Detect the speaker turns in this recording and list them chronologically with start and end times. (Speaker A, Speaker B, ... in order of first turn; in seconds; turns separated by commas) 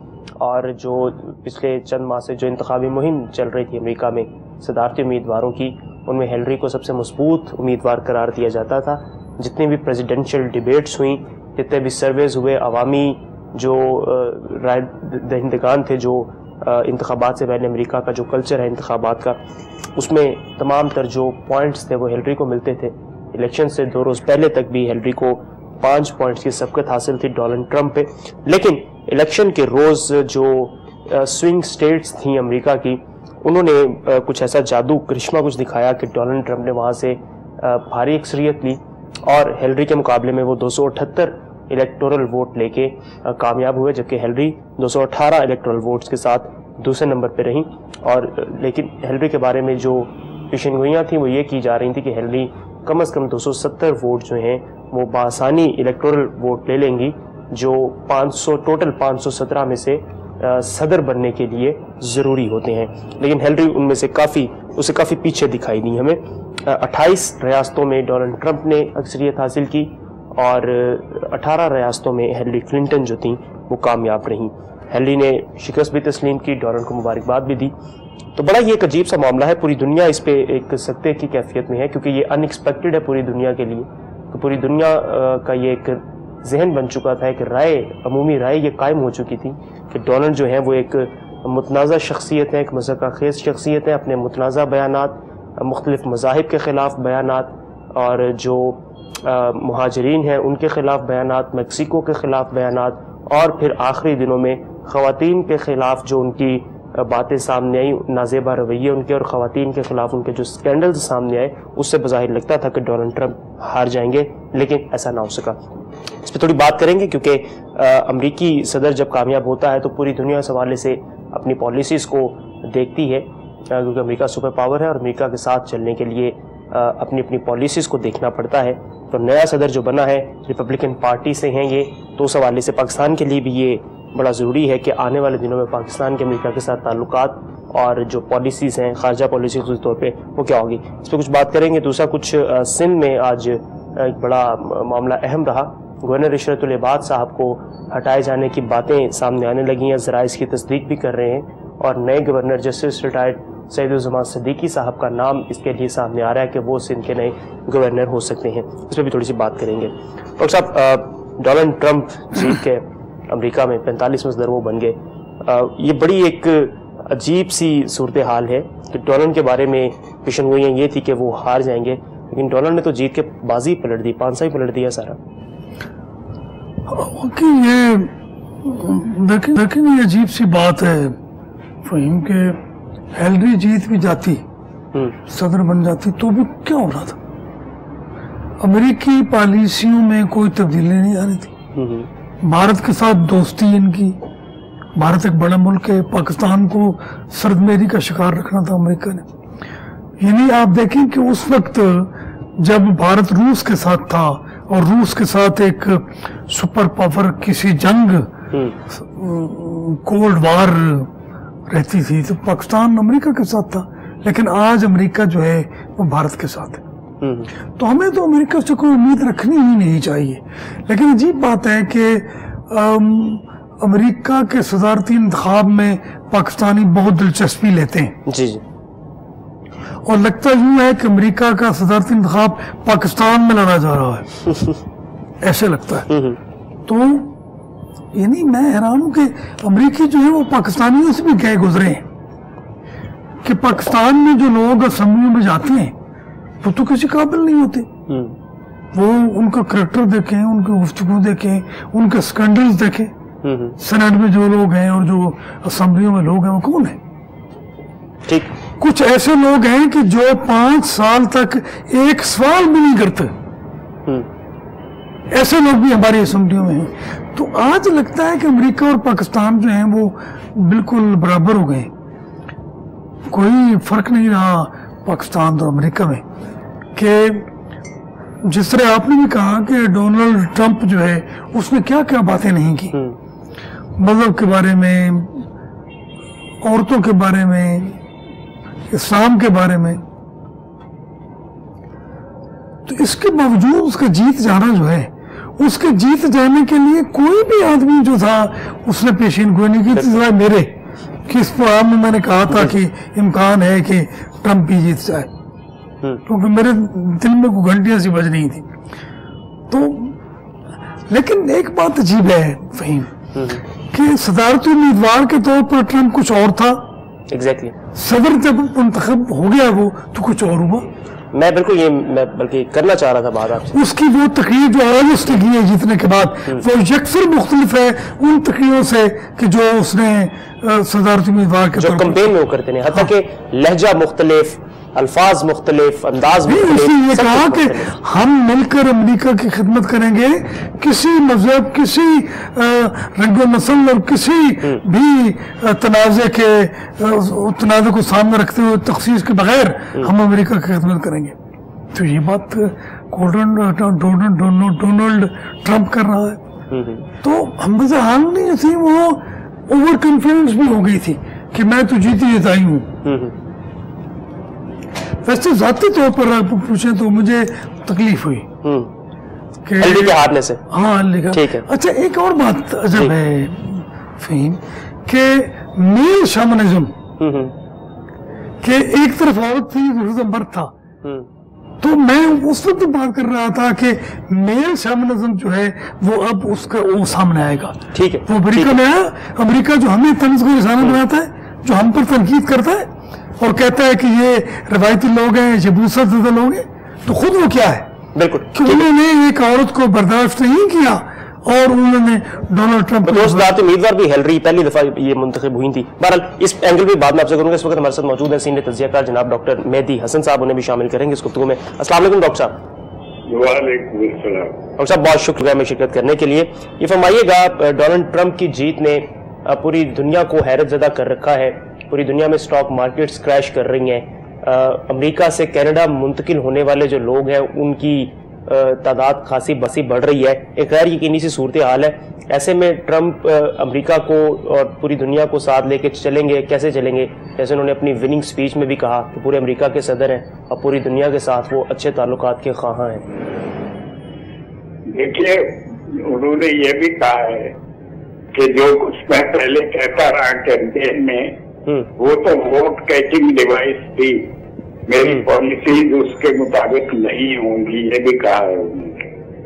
Speaker A: 0.4-19.4, Speaker A: 20.0-77.7, Speaker A: 78.3-115.6, Speaker A: 116.2-175.2, Speaker B: 176.9-181.2, Speaker B: 181.8-182.6, Speaker B: 183.1-184.4, Speaker B: 185.3-187.2, Speaker B: 188.6-191.5, Speaker A: 191.8-192.1, Speaker B: 192.4-194.2, Speaker B: 194.9-199.3, Speaker B: 200.2-208.3, Speaker A: 208.5-208.8, Speaker B: 208.9-211.1, Speaker B: 211.7-216.8, Speaker A: 217.2-217.5, Speaker B: 217.8-228.2, Speaker A: 228.3-228.6, Speaker B: 230.1-234.3, Speaker A: 234.5-234.8, Speaker B: 235.4-236.1, Speaker A: 236.1-236.4, Speaker B: 236.9-237.4, Speaker B: 238.1-242.1, Speaker B: 243.4-245.9, Speaker B: 246.6-247.9, Speaker A: 248.1-248.3, Speaker B: 248.9-253.1, Speaker A: 253.4-253.8, Speaker B: 253.8-257.0, Speaker A: 258.3-258.5, Speaker B: 258.8-263.3, Speaker B: 265.3-271.9, Speaker B: 273.3-276.2, Speaker B: 276.9-277.5, Speaker B: 278.4-283.0, Speaker B: 284.0-285.5, Speaker B: 286.6-288.0, Speaker B: 288.9-290.0, Speaker B: 292.9-300.8, Speaker B: 301.3-305.3, Speaker B: 306.3-308.7, Speaker B: 309.7-310.2, Speaker B: 311.1-313.1, Speaker A: 313.4-313.6, Speaker B: 313.9-316.9, Speaker A: 317.3-317.8, Speaker B: 317.9-320.9, Speaker A: 321.3-323.8, Speaker B: 323.7-332.3, Speaker A: 331.8-338.0, Speaker B: 336.5-351.4, Speaker B: 351.9-356.4, Speaker A: 356.7-357.1, Speaker B: 357.2-362.9, Speaker A: 363.0-363.4, Speaker B: 365.2-368.5, Speaker A: 368.6-368.9, Speaker B: 369.6-377.0, Speaker A: 369.8-370.6, Speaker A: 371.3-371.7, Speaker A: 377.2-377.6, Speaker B: 378.6-380.7, Speaker B: 381.8-397.9, Speaker A: 387.9-388.8, Speaker A: 398.1-398.9, Speaker B: 398.5-403.5, Speaker A: 403.0-412.6, Speaker C: 413.3-414.6, Speaker A: 414.8-443.1, Speaker C: 444.9-447.5, Speaker C: 448.3-451.4, Speaker C: 452.0-454.3, Speaker C: 454.9-459.0